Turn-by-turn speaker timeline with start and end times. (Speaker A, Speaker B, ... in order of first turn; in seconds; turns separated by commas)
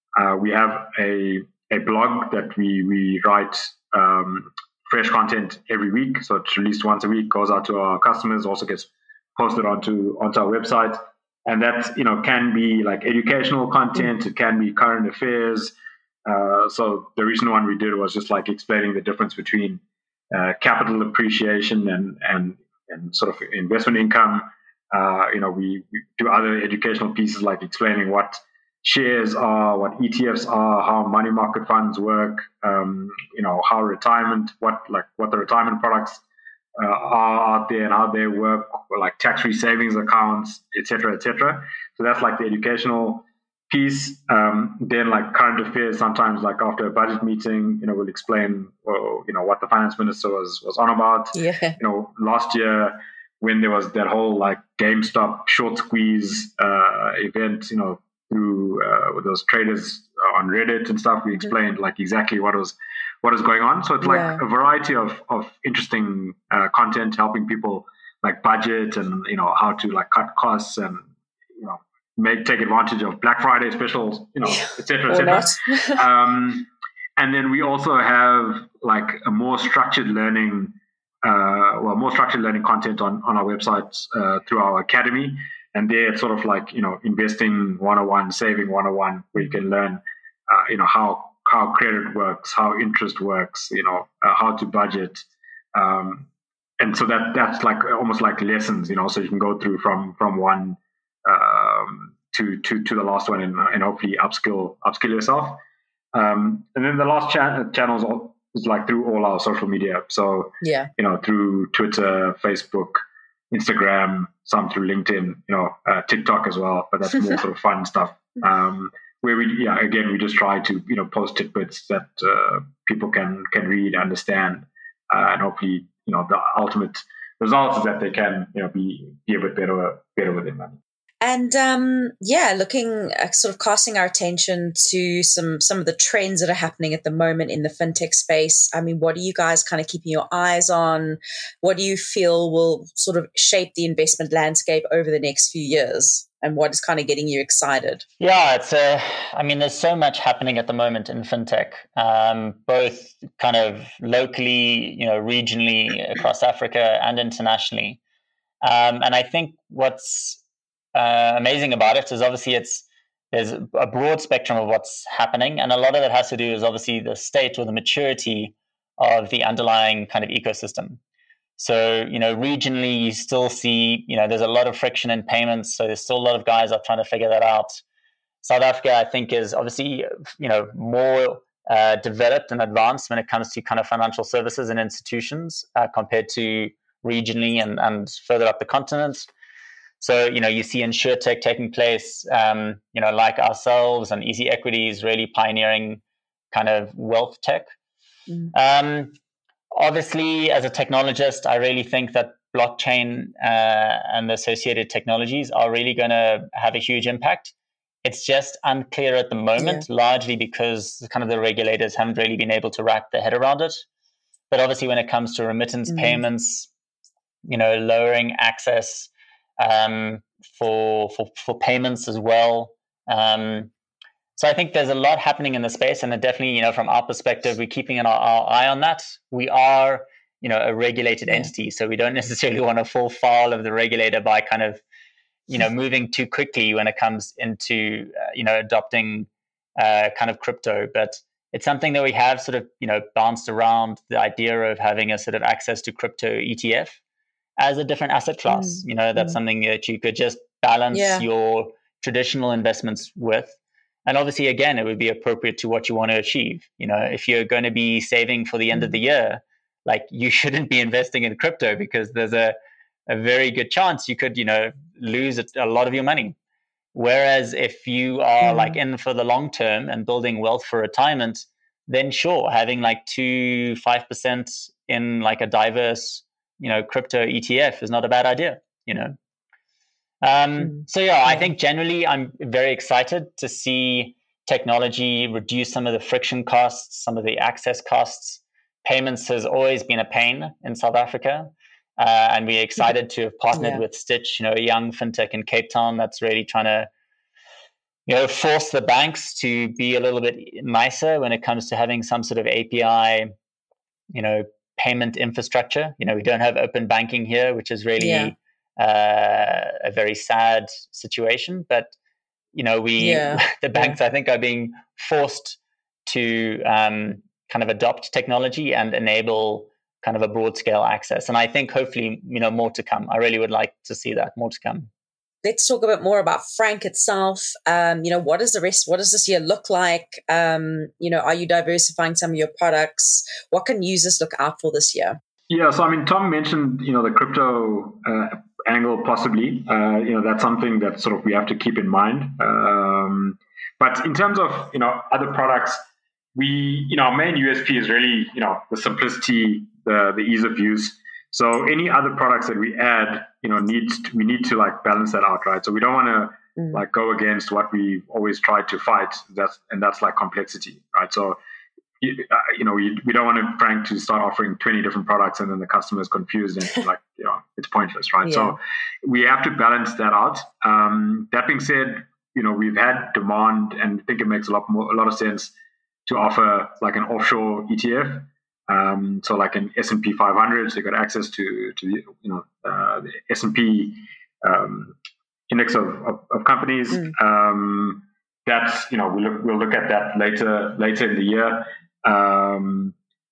Speaker A: 0.2-15.7, Speaker A: 16.3-36.2, Speaker A: 36.8-96.3, Speaker B: 51.4-51.8, Speaker B: 64.0-64.4, Speaker B: 74.5-76.0, Speaker A: 96.8-105.6, Speaker A: 106.1-130.8, Speaker B: 110.6-110.9, Speaker B: 131.2-148.0, Speaker C: 148.2-158.0, Speaker C: 158.6-160.4, Speaker C: 160.9-171.0, Speaker C: 171.6-177.8, Speaker C: 178.4-189.3, Speaker C: 190.0-196.0, Speaker C: 196.5-197.7, Speaker C: 198.5-199.2, Speaker C: 199.7-213.8, Speaker B: 209.6-209.9, Speaker C: 214.5-216.7, Speaker B: 215.9-216.2, Speaker C: 217.5-223.7, Speaker C: 224.4-234.8, Speaker C: 235.5-247.0, Speaker C: 247.6-262.6, Speaker B: 248.5-249.4, Speaker B: 250.9-251.2, Speaker C: 263.1-266.4, Speaker C: 266.9-279.2, Speaker B: 268.4-268.8, Speaker C: 280.2-296.9, Speaker B: 293.5-293.8, Speaker C: 298.1-303.3, Speaker C: 304.1-311.9, Speaker B: 308.0-308.3, Speaker C: 312.5-324.9, Speaker B: 313.0-314.0, Speaker B: 325.4-335.2, Speaker A: 335.5-345.8, Speaker A: 346.4-361.4, Speaker A: 362.0-375.5, Speaker B: 368.2-368.6, Speaker A: 376.1-385.0, Speaker A: 385.5-392.9